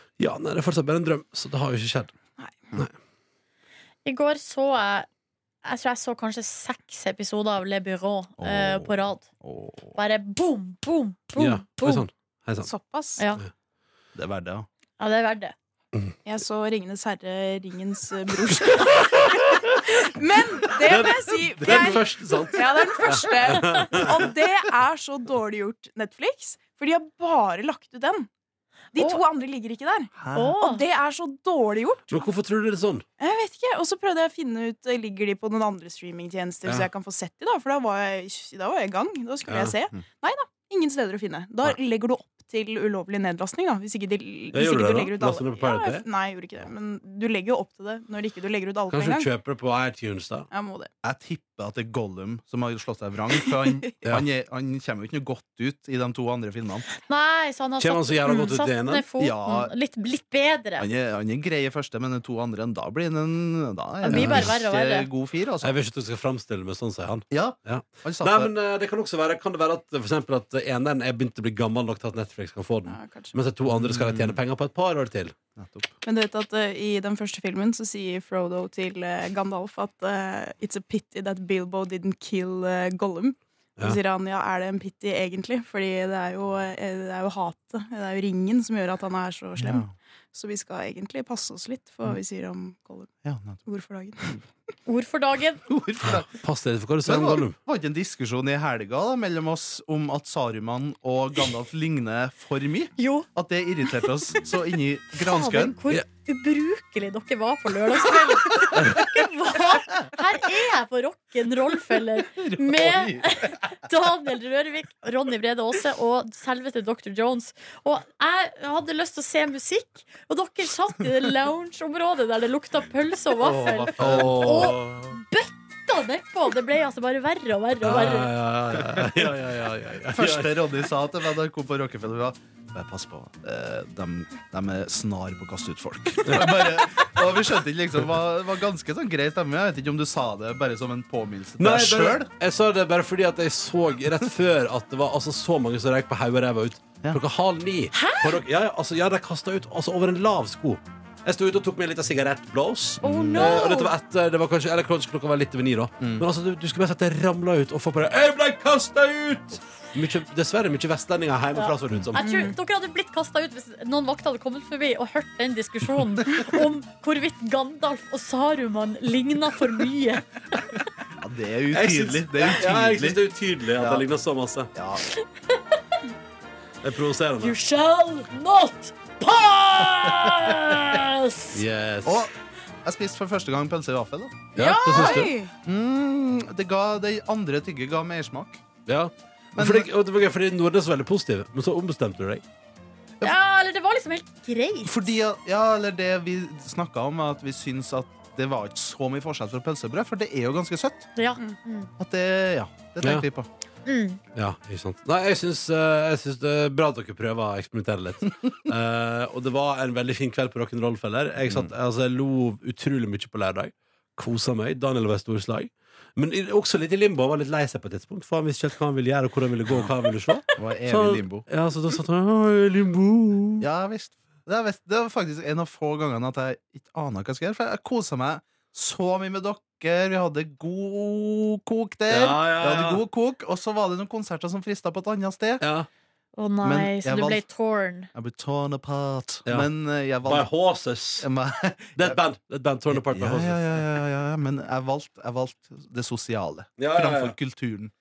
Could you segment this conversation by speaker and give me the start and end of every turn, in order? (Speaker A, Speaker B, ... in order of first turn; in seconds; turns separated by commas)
Speaker A: 0.2-2.1, Speaker B: 4.0-5.1, Speaker B: 5.6-9.3, Speaker C: 8.4-9.9, Speaker B: 9.9-12.0, Speaker A: 11.3-12.7, Speaker D: 12.6-13.2, Speaker B: 13.2-13.4, Speaker C: 14.1-14.7, Speaker B: 15.0-15.5, Speaker D: 16.2-28.3, Speaker A: 18.5-19.8, Speaker A: 20.7-24.3, Speaker C: 21.6-21.9, Speaker B: 23.0-23.9, Speaker D: 28.9-32.2, Speaker C: 30.2-30.6, Speaker B: 30.3-30.8, Speaker A: 32.1-33.0, Speaker D: 33.2-49.3, Speaker A: 39.5-39.7, Speaker A: 44.5-46.0, Speaker A: 48.9-50.5, Speaker D: 50.5-50.9, Speaker C: 51.0-56.9, Speaker D: 53.5-53.9, Speaker B: 57.1-60.9, Speaker A: 57.8-59.0, Speaker C: 59.2-59.7, Speaker C: 60.8-65.7, Speaker B: 64.0-65.1, Speaker A: 64.1-64.5, Speaker A: 65.6-75.3, Speaker C: 67.3-68.5, Speaker D: 72.9-73.3, Speaker C: 73.7-74.4, Speaker C: 75.5-75.9, Speaker D: 76.0-93.1, Speaker C: 89.6-89.9, Speaker C: 93.2-93.6, Speaker D: 93.6-94.4, Speaker B: 94.8-95.6, Speaker C: 95.7-96.3, Speaker A: 96.1-97.5, Speaker C: 97.0-105.8, Speaker B: 103.0-103.3, Speaker B: 105.2-128.3, Speaker C: 108.3-109.2, Speaker C: 112.3-113.5, Speaker C: 123.4-124.8, Speaker A: 124.0-125.2, Speaker A: 127.8-130.6, Speaker C: 128.8-129.3, Speaker C: 130.0-142.3, Speaker A: 136.2-136.8, Speaker A: 141.6-162.3, Speaker B: 147.9-148.4, Speaker C: 153.0-153.6, Speaker B: 153.0-153.9, Speaker C: 156.0-156.2, Speaker B: 161.5-170.8, Speaker D: 162.2-162.6, Speaker C: 171.1-173.2, Speaker A: 171.7-174.7, Speaker C: 173.8-174.1, Speaker C: 174.7-175.0, Speaker B: 175.1-176.0, Speaker A: 176.8-177.6, Speaker B: 177.4-181.6, Speaker C: 180.0-180.8, Speaker A: 181.5-182.3, Speaker C: 182.0-182.3, Speaker C: 182.8-184.4, Speaker A: 184.5-185.3, Speaker D: 184.6-185.5, Speaker B: 184.6-185.2, Speaker C: 185.0-188.6, Speaker A: 188.8-192.4, Speaker C: 189.5-189.9, Speaker B: 193.2-195.1, Speaker C: 194.8-201.1, Speaker B: 201.2-201.9, Speaker C: 202.0-203.5, Speaker B: 203.8-204.2, Speaker A: 204.3-223.6, Speaker C: 220.5-221.4, Speaker C: 223.6-235.6, Speaker A: 232.1-233.0, Speaker A: 235.6-235.9, Speaker B: 236.3-238.1, Speaker C: 236.6-237.4, Speaker C: 238.1-240.5, Speaker A: 240.2-241.3, Speaker C: 241.2-242.2, Speaker A: 241.9-243.8, Speaker C: 242.9-247.9, Speaker A: 246.8-247.3